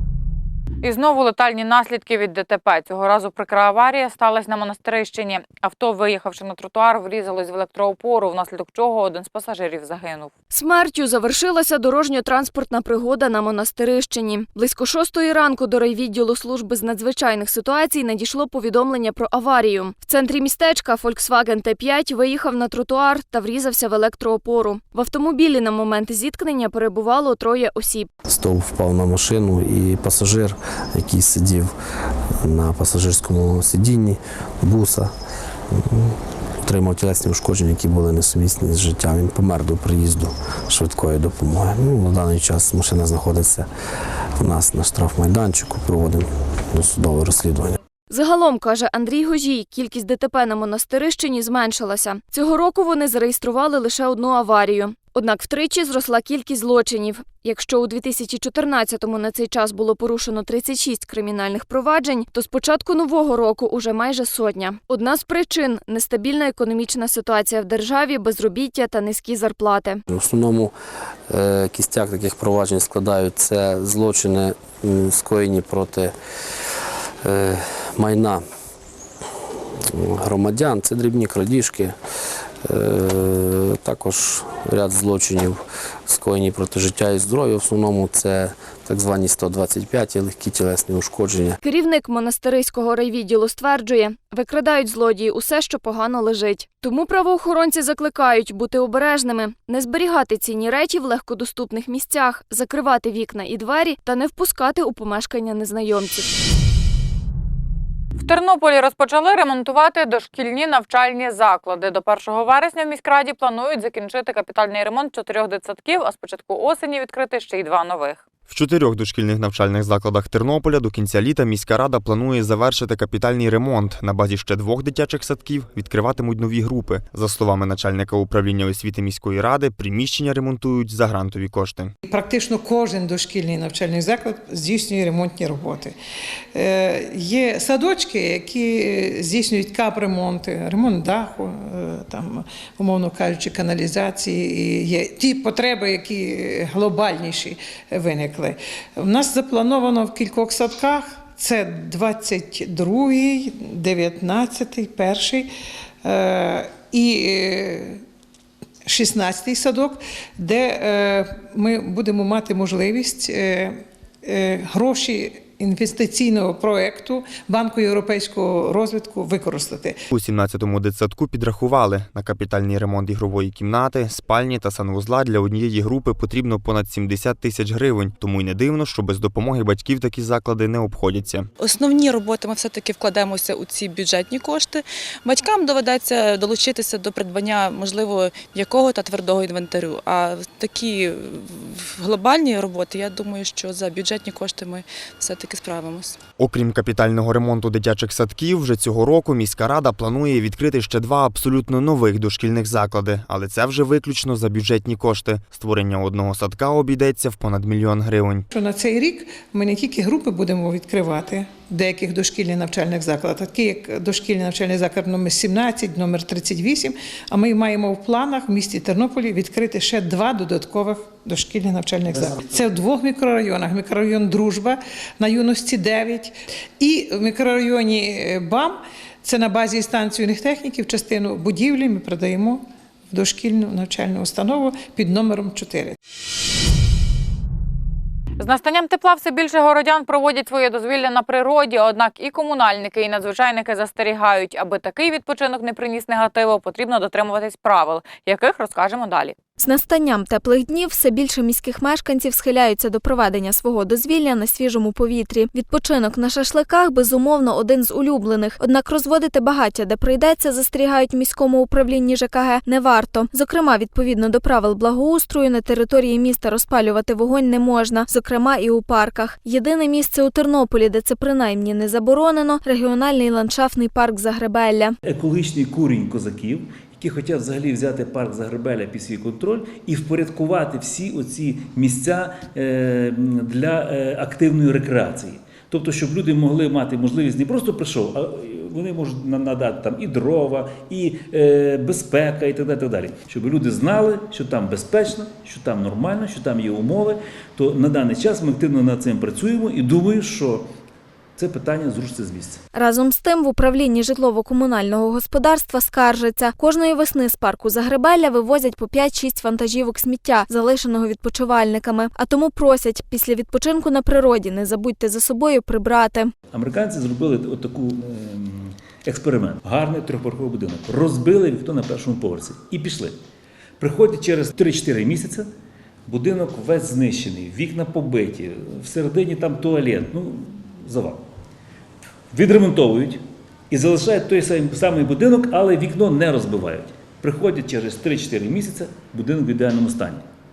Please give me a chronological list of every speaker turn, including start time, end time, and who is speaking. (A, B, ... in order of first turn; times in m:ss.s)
0:00.8-0:10.3 A
0:10.5-0:28.1 B
0:28.3-0:31.7 C
0:32.4-0:35.1 C
0:36.6-0:43.6 C
0:44.4-0:47.7 C
0:48.1-1:10.0 B
1:10.2-1:10.7 C
1:11.3-1:16.1 C
1:17.3-1:18.4 C
1:20.0-1:21.9 C
1:22.7-1:25.6 C
1:26.1-1:31.5 C
1:31.6-1:46.3 B
1:48.2-1:58.2 A
1:58.5-2:11.9 D
2:12.0-2:15.9 E
2:16.5-2:35.5 E
2:36.0-2:38.0 E
2:38.8-2:50.0 E
2:50.1-3:01.5 D
3:01.6-3:16.2 F
3:16.4-3:28.4 D
3:28.5-3:56.0 E
3:58.4-4:09.4 A
4:09.6-4:35.0 G
4:35.0-5:00.6 H
5:01.4-5:02.6 H
5:02.7-5:16.3 G
5:16.5-5:23.1 H
5:23.8-5:25.5 H
5:26.1-5:31.2 H
5:32.3-5:40.2 H